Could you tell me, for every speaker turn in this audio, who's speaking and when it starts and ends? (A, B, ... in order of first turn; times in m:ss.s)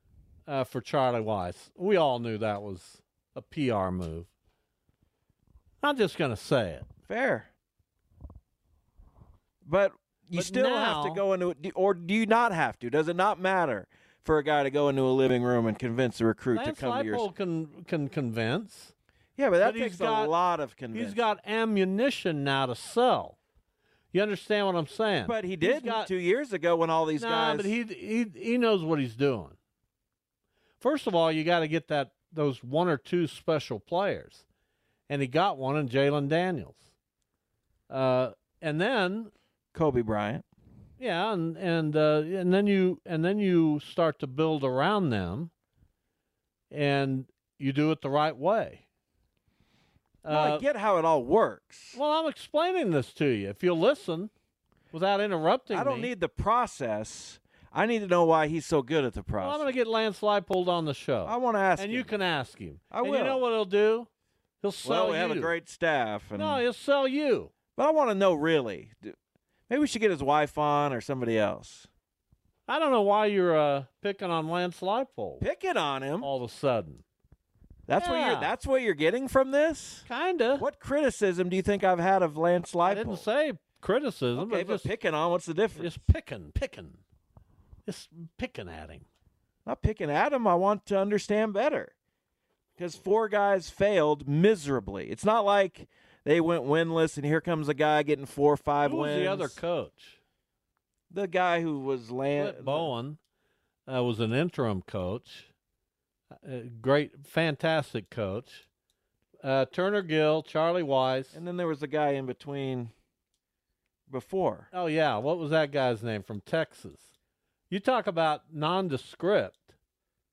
0:00.5-0:04.3 A
0:05.8-0:06.8 A
0:07.1-0:07.5 B
0:09.6-0:17.3 B
0:10.3-0:11.2 A
0:16.5-0:18.9 A
0:19.4-0:21.2 B
0:19.6-0:20.3 A
0:20.9-0:23.4 A
0:24.1-0:26.1 A
0:25.2-0:27.7 B
0:27.2-0:29.6 A
0:30.8-0:34.4 A
0:35.1-0:36.8 A
0:37.9-0:39.3 A
0:39.7-0:40.4 B
0:41.0-0:45.5 A
0:46.7-0:48.8 A
0:50.2-0:50.6 A
0:50.3-0:52.0 B
0:51.9-0:54.3 A
0:54.9-0:56.1 A
0:55.7-0:59.6 B
0:59.4-1:04.1 A
1:01.2-1:02.1 B
1:02.9-1:03.4 B
1:04.6-1:05.5 A
1:04.8-1:06.6 B
1:06.4-1:07.5 A
1:07.8-1:09.1 B
1:09.7-1:11.9 B
1:12.7-1:15.4 A
1:15.4-1:16.3 B
1:16.2-1:17.0 A
1:17.9-1:20.1 B
1:18.0-1:18.5 A
1:20.1-1:20.6 A
1:20.6-1:23.2 B
1:22.8-1:24.9 A
1:24.4-1:26.0 B
1:25.8-1:27.0 A
1:27.8-1:29.0 A
1:29.6-1:31.9 B
1:32.8-1:39.6 B
1:38.8-1:40.2 A
1:41.1-1:42.9 B
1:42.4-1:43.2 A
1:43.9-1:45.5 A
1:46.4-1:48.6 A
1:49.4-1:51.4 A
1:51.3-1:52.9 B
1:54.1-1:54.7 B
1:54.7-1:57.1 A
1:57.7-1:59.7 A